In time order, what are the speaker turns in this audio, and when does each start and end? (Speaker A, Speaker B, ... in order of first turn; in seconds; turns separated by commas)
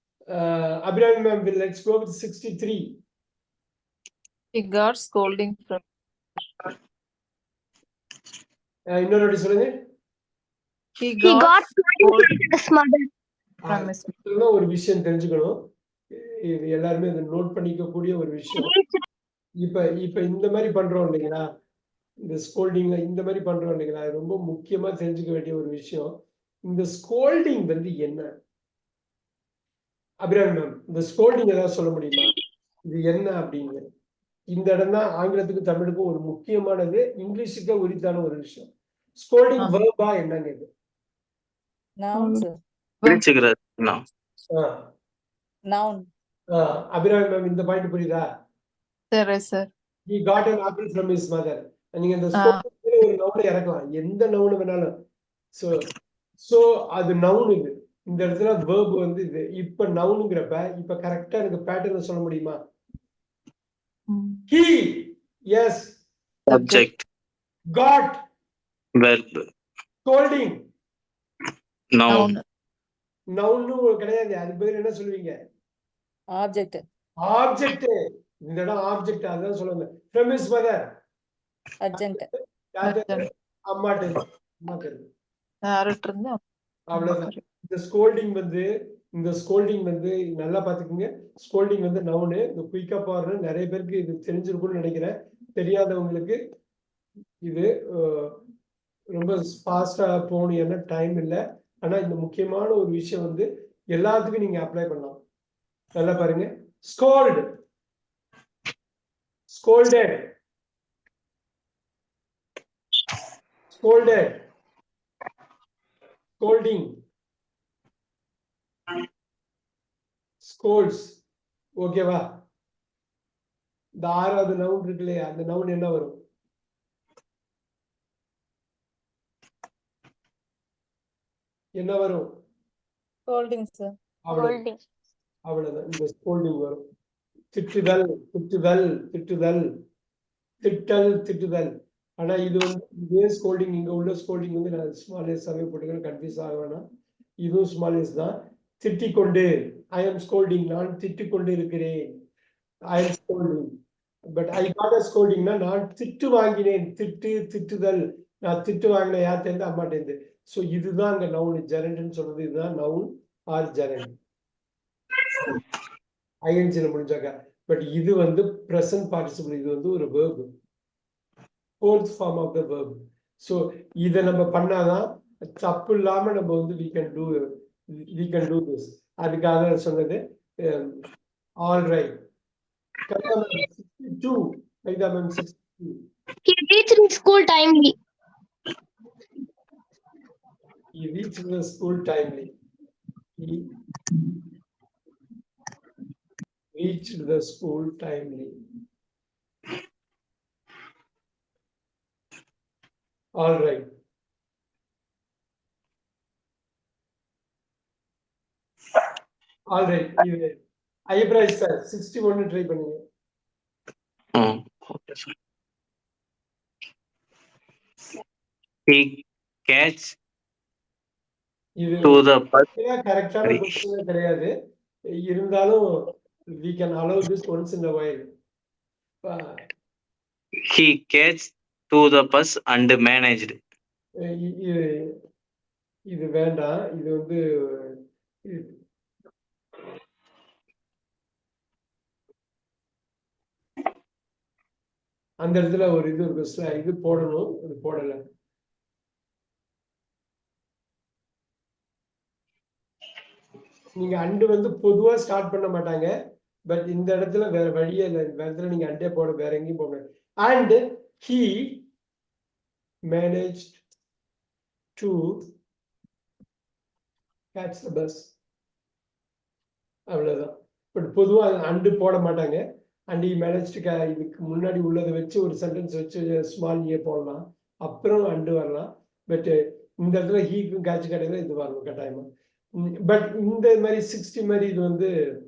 Speaker A: 0.3-3.0, Speaker B: 4.5-5.8, Speaker A: 8.9-9.7, Speaker B: 11.0-12.4, Speaker C: 11.2-13.0, Speaker A: 13.6-18.7, Speaker B: 13.7-14.1, Speaker C: 18.6-19.0, Speaker A: 19.6-21.4, Speaker A: 22.3-28.3, Speaker A: 30.2-32.3, Speaker A: 32.9-33.8, Speaker A: 34.5-40.7, Speaker D: 42.0-42.5, Speaker B: 42.1-42.4, Speaker E: 43.0-44.0, Speaker A: 44.5-44.8, Speaker D: 45.7-46.1, Speaker A: 46.5-48.2, Speaker B: 49.1-49.7, Speaker A: 50.1-54.9, Speaker B: 52.3-52.6, Speaker A: 55.5-55.9, Speaker A: 56.4-62.6, Speaker B: 64.1-64.5, Speaker A: 64.5-66.0, Speaker B: 66.5-66.9, Speaker E: 66.5-66.9, Speaker A: 67.7-68.2, Speaker E: 69.0-69.4, Speaker A: 70.0-70.6, Speaker E: 71.9-72.2, Speaker B: 72.1-72.4, Speaker A: 73.3-75.4, Speaker D: 76.3-76.8, Speaker A: 77.2-78.0, Speaker A: 78.5-81.0, Speaker D: 81.8-82.3, Speaker A: 82.0-85.0, Speaker B: 82.8-83.2, Speaker B: 85.6-86.4, Speaker A: 86.9-96.4, Speaker B: 86.9-87.4, Speaker A: 97.4-98.4, Speaker A: 99.1-105.2, Speaker A: 105.9-107.5, Speaker A: 109.5-110.3, Speaker A: 113.7-114.4, Speaker A: 116.4-117.0, Speaker A: 120.4-121.2, Speaker A: 121.8-122.4, Speaker A: 124.0-126.2, Speaker A: 131.8-132.4, Speaker D: 133.3-133.9, Speaker A: 134.2-134.6, Speaker C: 134.3-134.8, Speaker A: 135.5-136.8, Speaker A: 137.5-139.7, Speaker A: 140.6-146.8, Speaker A: 147.4-152.1, Speaker A: 152.9-153.7, Speaker A: 154.3-164.2, Speaker A: 166.5-170.5, Speaker A: 171.8-177.5, Speaker A: 178.1-181.0, Speaker A: 181.6-182.1, Speaker A: 183.1-186.0, Speaker C: 186.4-187.9, Speaker A: 190.9-192.5, Speaker A: 193.4-193.7, Speaker A: 196.7-198.5, Speaker A: 203.4-203.8, Speaker A: 209.7-210.5, Speaker A: 211.1-213.0, Speaker E: 214.3-215.3, Speaker E: 218.9-219.2, Speaker E: 219.7-220.1, Speaker A: 221.8-222.2, Speaker E: 222.1-222.6, Speaker A: 222.7-224.5, Speaker A: 225.2-226.1, Speaker A: 226.6-228.2, Speaker A: 229.2-229.6, Speaker E: 230.7-233.6, Speaker A: 234.2-235.1, Speaker A: 236.1-238.7, Speaker A: 245.4-248.2, Speaker A: 253.9-256.1, Speaker A: 256.7-261.8, Speaker A: 263.1-263.8, Speaker A: 265.0-265.5, Speaker A: 267.5-268.3, Speaker A: 270.1-282.3, Speaker A: 282.8-285.1